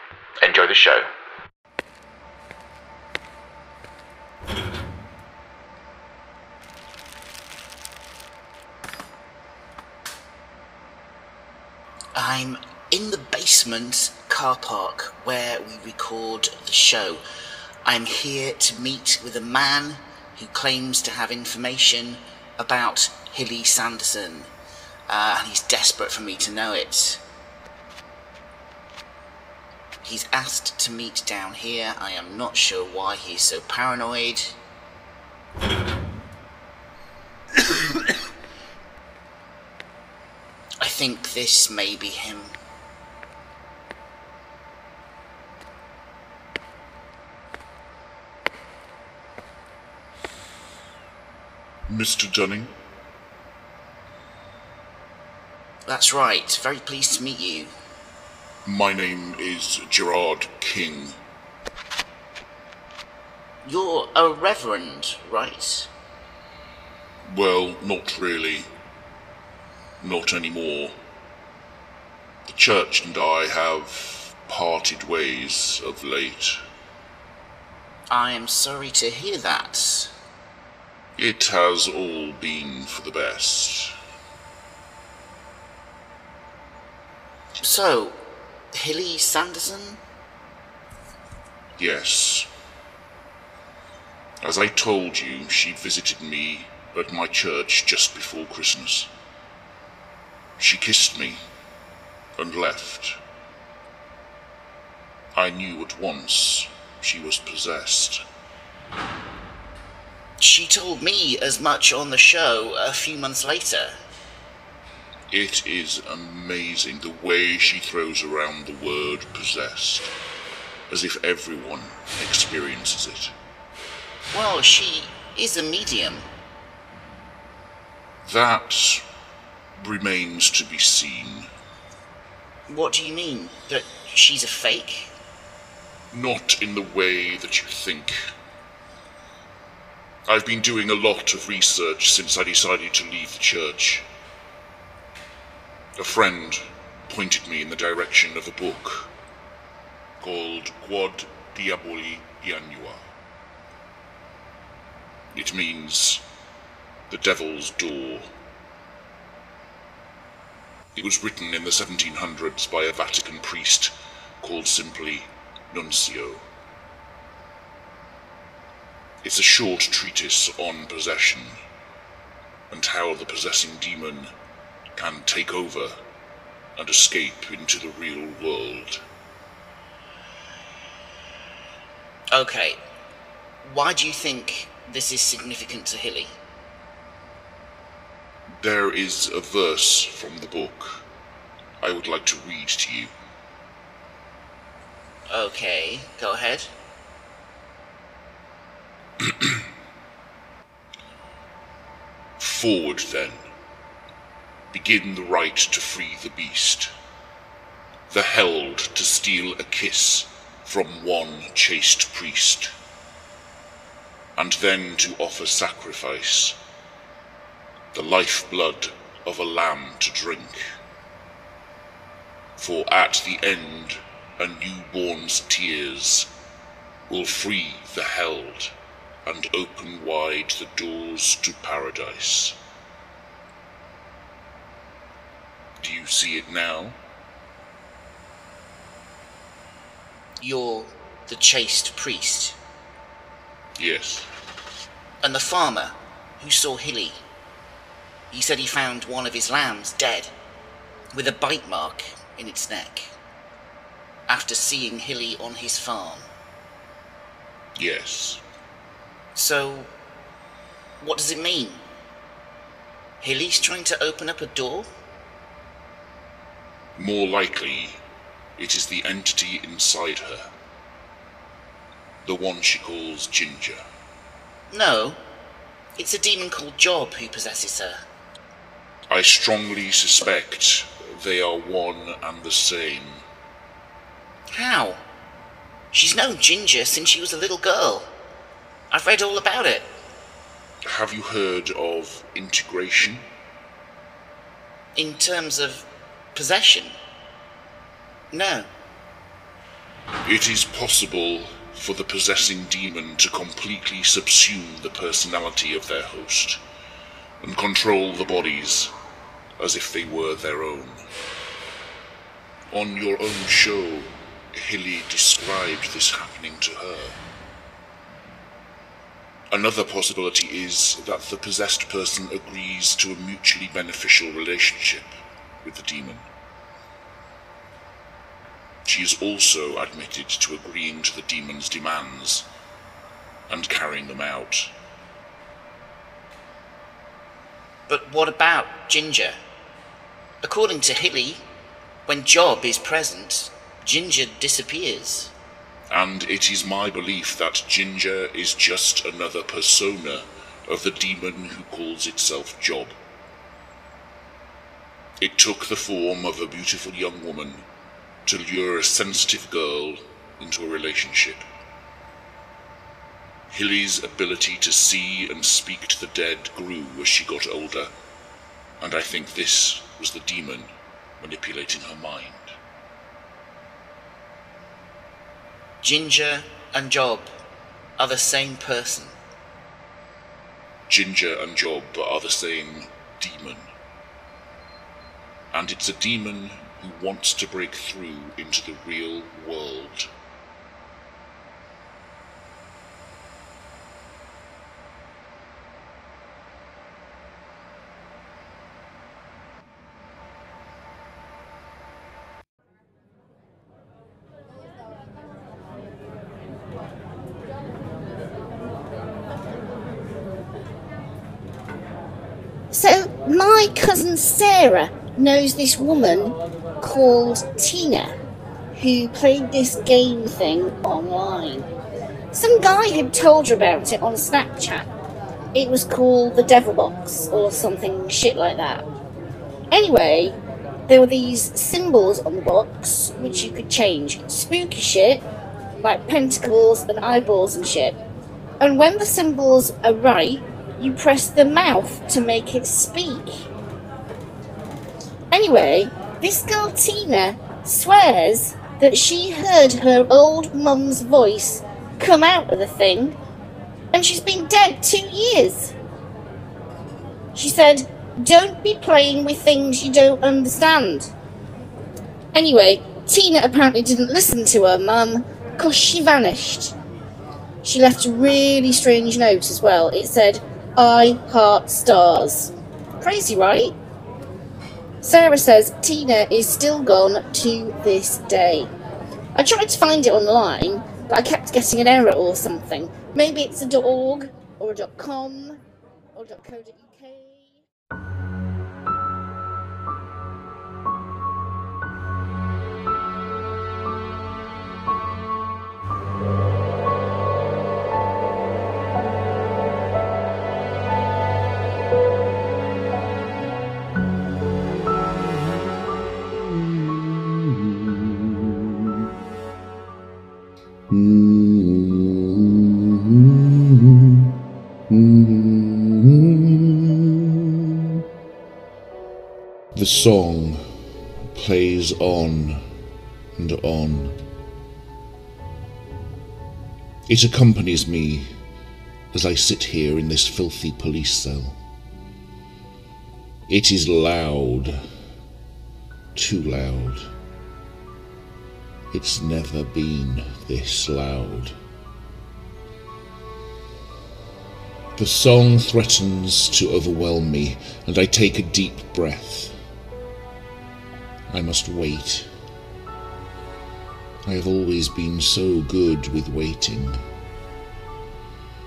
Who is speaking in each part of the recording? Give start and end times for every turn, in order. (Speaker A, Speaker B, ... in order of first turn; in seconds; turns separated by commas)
Speaker A: 0.4-1.1, Speaker B: 12.1-17.2, Speaker B: 17.8-24.5, Speaker B: 25.1-27.2, Speaker B: 30.0-34.5, Speaker B: 40.8-42.5, Speaker A: 51.9-52.7, Speaker B: 55.9-57.7, Speaker A: 58.6-61.2, Speaker B: 63.6-65.9, Speaker A: 67.2-68.7, Speaker A: 70.0-71.0, Speaker A: 72.5-76.6, Speaker B: 78.1-80.1, Speaker A: 81.2-83.9, Speaker B: 87.6-90.0, Speaker A: 91.8-92.5, Speaker A: 94.4-99.1, Speaker A: 100.6-101.4, Speaker A: 102.4-103.2, Speaker A: 105.3-108.2, Speaker B: 110.4-113.9, Speaker A: 115.3-120.1, Speaker A: 120.9-123.3, Speaker B: 124.3-126.2, Speaker A: 128.2-129.0, Speaker A: 129.8-131.5, Speaker B: 132.7-135.1, Speaker A: 136.1-138.2, Speaker A: 140.3-144.0, Speaker A: 146.0-149.1, Speaker A: 150.2-153.1, Speaker A: 155.3-156.2, Speaker A: 157.1-158.3, Speaker A: 160.9-166.4, Speaker A: 169.2-171.6, Speaker A: 172.7-174.3, Speaker A: 174.9-175.9, Speaker A: 176.8-179.0, Speaker B: 182.3-182.8, Speaker B: 183.6-186.4, Speaker A: 188.6-191.0, Speaker A: 191.8-193.1, Speaker B: 195.3-196.7, Speaker A: 202.4-203.4, Speaker A: 204.7-206.9, Speaker A: 208.1-212.7, Speaker A: 214.3-216.6, Speaker A: 217.9-220.6, Speaker A: 222.6-226.3, Speaker A: 227.1-228.7, Speaker A: 229.2-232.6, Speaker A: 235.8-237.0, Speaker B: 240.4-242.6, Speaker A: 243.8-244.3, Speaker B: 245.2-247.2, Speaker B: 248.3-250.3, Speaker B: 251.1-253.1, Speaker B: 254.3-256.3, Speaker A: 257.8-258.4, Speaker B: 259.3-259.9, Speaker B: 261.0-261.8, Speaker B: 263.2-264.9, Speaker A: 266.9-268.0, Speaker A: 268.6-270.5, Speaker A: 272.2-273.8, Speaker B: 274.7-275.2, Speaker B: 276.0-278.0, Speaker A: 279.1-283.2, Speaker B: 284.5-285.0, Speaker B: 285.9-288.1, Speaker B: 288.9-289.9, Speaker A: 290.9-293.2, Speaker B: 294.9-296.9, Speaker B: 298.3-298.7, Speaker A: 300.2-306.6, Speaker A: 307.4-308.9, Speaker A: 309.6-311.0, Speaker A: 312.7-317.2, Speaker A: 319.5-325.1, Speaker A: 325.6-326.3, Speaker A: 328.8-332.5, Speaker A: 333.5-334.7, Speaker B: 337.9-339.4, Speaker B: 340.4-341.4, Speaker B: 342.1-345.3, Speaker A: 345.9-352.9, Speaker A: 355.2-357.6, Speaker A: 358.2-361.4, Speaker A: 363.5-367.9, Speaker A: 368.8-372.5, Speaker B: 375.8-377.3, Speaker B: 378.0-379.1, Speaker A: 380.9-383.7, Speaker A: 385.5-390.1, Speaker C: 412.7-418.1, Speaker C: 418.8-421.7, Speaker C: 422.3-424.9, Speaker C: 425.5-428.8, Speaker C: 429.7-435.2, Speaker C: 435.8-438.0, Speaker C: 438.6-443.4, Speaker C: 445.3-453.1, Speaker C: 453.9-455.7, Speaker C: 457.3-461.1, Speaker C: 462.3-466.7, Speaker C: 467.6-473.7, Speaker C: 475.0-478.7, Speaker C: 479.4-485.6, Speaker C: 486.1-487.5, Speaker A: 510.9-513.2, Speaker A: 514.9-517.1, Speaker A: 519.7-520.6, Speaker A: 521.3-522.6, Speaker A: 523.4-524.2, Speaker A: 527.1-528.3, Speaker A: 529.1-531.6, Speaker A: 533.5-534.8, Speaker A: 536.1-537.1, Speaker A: 538.9-541.6, Speaker A: 545.0-549.5, Speaker A: 551.3-552.3, Speaker A: 554.2-557.0